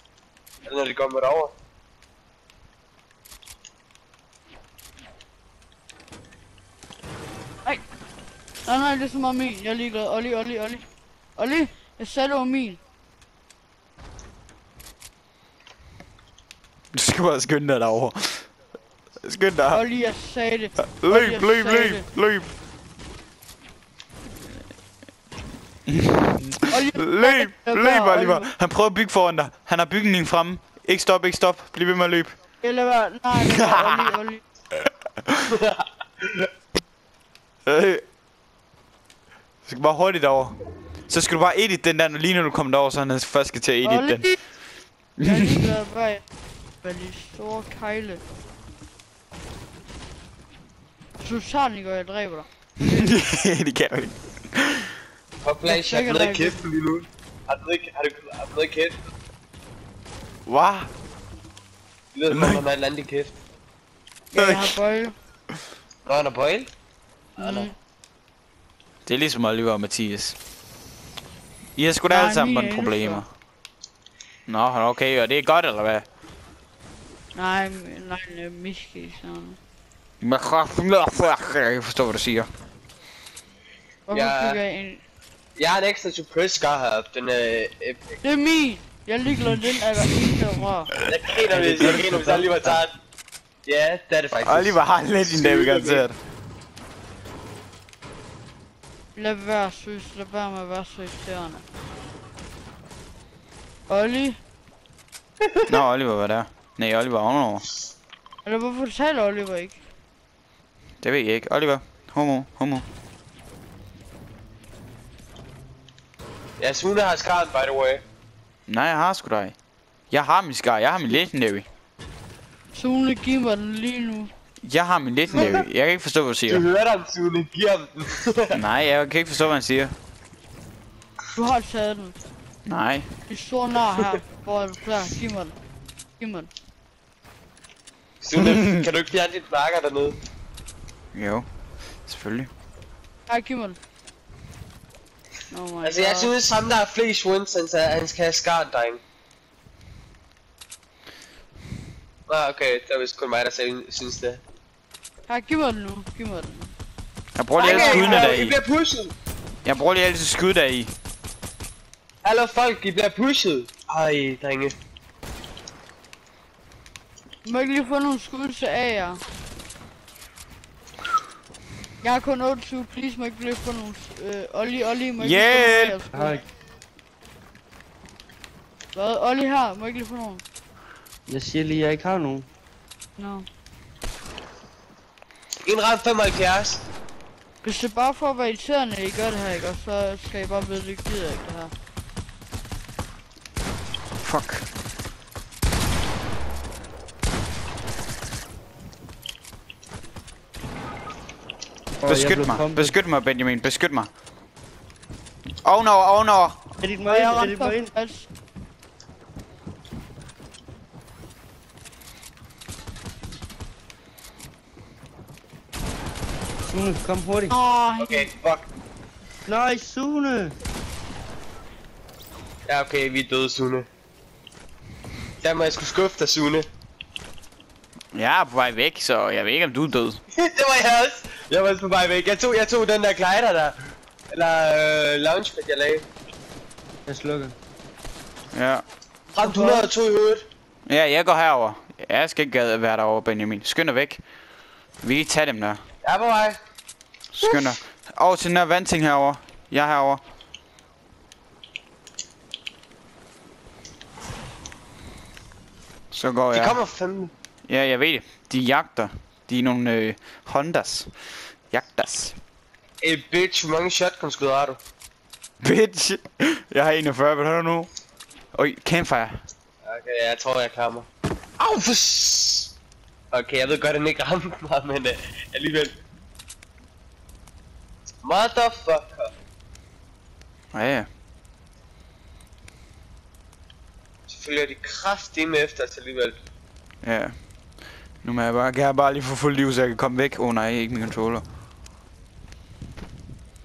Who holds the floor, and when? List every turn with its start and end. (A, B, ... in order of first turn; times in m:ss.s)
0:00.6-0:01.5 A
0:08.6-0:10.8 B
0:11.4-0:12.8 B
0:16.9-0:18.5 C
0:19.2-0:19.8 C
0:19.7-0:22.0 B
0:20.8-0:22.5 C
0:25.9-0:32.3 C
0:26.7-0:28.5 B
0:32.6-0:34.4 B
0:33.4-0:34.1 C
0:34.8-0:35.5 C
0:35.5-0:36.5 A
0:37.7-0:38.0 C
0:39.6-0:40.6 C
0:41.1-0:44.2 C
0:43.8-0:44.4 B
0:45.2-0:46.2 B
0:45.2-0:45.5 C
0:46.8-0:48.2 B
0:51.2-0:53.2 B
0:52.8-0:54.9 C
0:55.4-0:59.0 A
0:55.6-0:56.6 B
1:00.4-1:00.9 C
1:02.1-1:03.3 A
1:02.3-1:02.6 C
1:04.3-1:05.1 B
1:04.4-1:04.8 C
1:06.1-1:06.7 A
1:07.4-1:07.7 B
1:07.4-1:07.7 A
1:09.0-1:10.4 C
1:11.8-1:13.2 C
1:12.1-1:13.2 B
1:14.5-1:16.0 C
1:17.3-1:19.6 B
1:20.2-1:22.5 C
1:24.1-1:25.0 B
1:24.1-1:24.6 A
1:25.6-1:28.2 A
1:28.2-1:30.9 B
1:31.0-1:32.9 A
1:31.5-1:32.8 D
1:33.6-1:36.0 A
1:34.4-1:36.2 C
1:39.2-1:41.6 B
1:43.9-1:44.4 B
1:45.7-1:47.6 C
1:48.4-1:49.8 B
1:51.0-1:52.8 C
1:56.6-1:58.0 A
1:58.7-1:59.6 C
2:00.1-2:01.6 C
2:02.7-2:04.3 B
2:04.6-2:06.6 C
2:05.3-2:05.6 A
2:06.5-2:08.6 A
2:08.5-2:09.9 C
2:11.3-2:12.2 B
2:12.6-2:13.1 C
2:13.3-2:15.5 B
2:16.2-2:16.5 B
2:18.2-2:20.2 A
2:18.4-2:18.8 C
2:21.1-2:21.5 C
2:22.0-2:22.5 C
2:23.3-2:23.8 B
2:25.5-2:26.3 B
2:25.8-2:29.0 A
2:32.3-2:34.4 A
2:35.3-2:36.7 B
2:37.3-2:38.6 C
2:37.6-2:39.1 A
2:37.6-2:38.4 B
2:39.6-2:40.9 C
2:42.2-2:44.7 A
2:47.4-2:49.2 B
2:52.0-2:56.3 B
2:55.2-2:56.0 C
2:56.1-2:56.4 D
2:58.9-3:00.4 B
3:01.3-3:02.5 D
3:03.2-3:03.5 B
3:05.6-3:06.8 A
3:07.6-3:11.7 B
3:14.2-3:14.6 C
3:22.0-3:22.9 D
3:22.0-3:24.1 C
3:25.6-3:26.6 C
3:26.8-3:27.9 D
3:27.1-3:28.3 B
3:36.6-3:37.6 D
3:37.5-3:38.3 B
3:38.0-3:38.6 A
3:39.5-3:40.6 D
3:42.7-3:43.8 A
3:45.4-3:46.7 A
3:48.1-3:50.2 C
3:50.4-3:53.8 A
3:54.3-3:56.0 A
3:57.1-3:57.6 D
3:58.5-3:58.8 C
3:59.3-4:00.4 A
4:00.9-4:04.2 C
4:05.0-4:05.8 C
4:06.0-4:06.6 A
4:07.3-4:10.2 C
4:07.4-4:07.7 A
4:16.1-4:16.8 C
4:16.5-4:17.3 A
4:17.7-4:21.1 C
4:21.7-4:22.4 C
4:23.0-4:24.8 A
4:25.6-4:27.9 C
4:28.5-4:29.4 C
4:29.8-4:31.1 A
4:31.6-4:32.7 A
4:33.3-4:35.9 A
4:38.2-4:39.3 A
4:40.7-4:41.1 C
4:44.3-4:46.4 A
4:47.0-4:47.4 C
4:48.2-4:51.4 C